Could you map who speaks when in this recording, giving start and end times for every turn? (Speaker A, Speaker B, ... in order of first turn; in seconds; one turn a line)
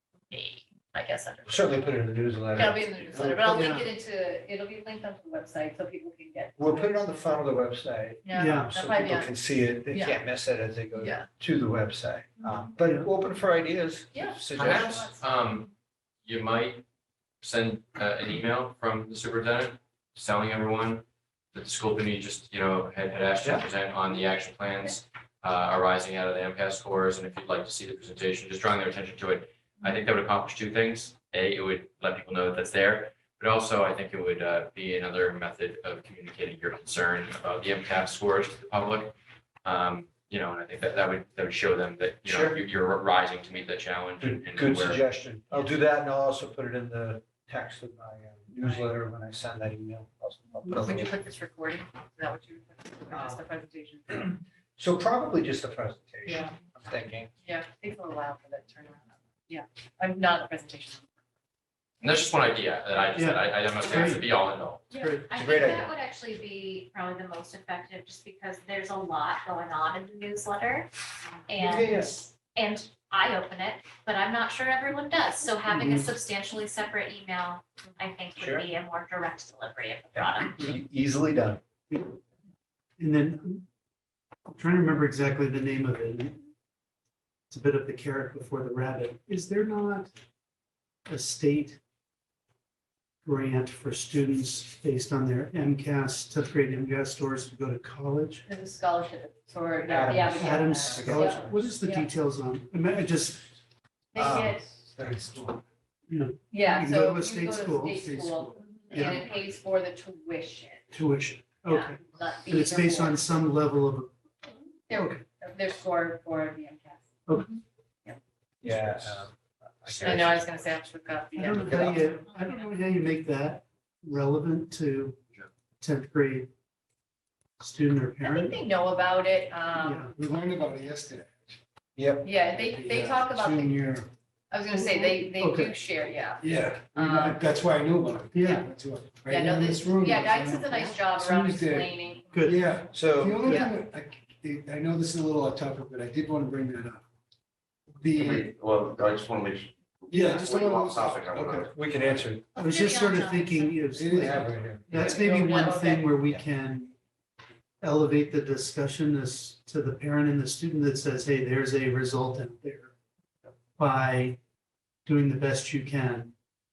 Speaker A: 0.3-2.0
Speaker B: 1.5-3.8
Speaker A: 2.5-7.4
Speaker C: 3.5-3.9
Speaker B: 6.6-15.1
Speaker A: 8.2-9.3
Speaker C: 8.4-8.7
Speaker A: 9.9-10.2
Speaker A: 11.0-11.3
Speaker C: 12.8-13.1
Speaker A: 14.1-15.2
Speaker D: 14.6-15.7
Speaker D: 16.2-16.8
Speaker D: 17.4-45.0
Speaker B: 42.2-42.6
Speaker B: 44.2-51.1
Speaker A: 48.6-48.9
Speaker A: 50.7-54.4
Speaker B: 53.1-53.4
Speaker B: 54.8-57.3
Speaker A: 56.2-56.5
Speaker A: 57.4-61.0
Speaker D: 62.0-64.9
Speaker C: 63.1-64.3
Speaker C: 64.9-65.4
Speaker E: 65.0-70.9
Speaker B: 65.3-65.9
Speaker E: 71.5-80.6
Speaker B: 71.6-72.3
Speaker C: 75.7-76.0
Speaker B: 78.4-78.7
Speaker B: 80.1-81.6
Speaker C: 83.0-83.6
Speaker C: 84.5-86.4
Speaker C: 87.5-90.1
Speaker C: 91.1-91.8
Speaker C: 93.2-98.4
Speaker A: 98.5-102.1
Speaker B: 99.9-101.6
Speaker C: 100.3-103.5
Speaker A: 104.1-104.8
Speaker B: 104.2-105.6
Speaker C: 106.1-109.2
Speaker A: 106.5-111.0
Speaker C: 110.9-114.1
Speaker A: 111.7-113.5
Speaker A: 114.9-117.1
Speaker C: 114.9-115.2
Speaker C: 117.3-117.6
Speaker C: 118.6-119.2
Speaker B: 118.6-120.7
Speaker A: 120.0-122.3
Speaker C: 121.4-125.2
Speaker B: 121.6-122.0
Speaker C: 125.8-126.5
Speaker C: 127.6-128.7
Speaker A: 128.2-130.1
Speaker C: 129.8-130.3
Speaker F: 130.2-131.6
Speaker B: 132.0-132.3
Speaker A: 132.2-133.8
Speaker F: 132.7-134.1
Speaker A: 134.5-137.4
Speaker C: 134.7-135.7
Speaker F: 136.4-141.9
Speaker C: 138.3-138.7
Speaker A: 139.3-142.5
Speaker C: 142.3-142.8
Speaker F: 142.4-147.0
Speaker B: 142.9-143.5
Speaker A: 143.4-143.7
Speaker F: 148.0-148.6
Speaker G: 148.0-152.2
Speaker F: 150.1-151.7
Speaker B: 151.6-152.6
Speaker E: 152.6-153.8
Speaker C: 152.6-156.9
Speaker F: 153.9-154.9
Speaker B: 154.1-155.2
Speaker A: 155.1-156.4
Speaker C: 157.8-162.9
Speaker C: 163.8-164.4
Speaker C: 165.1-166.3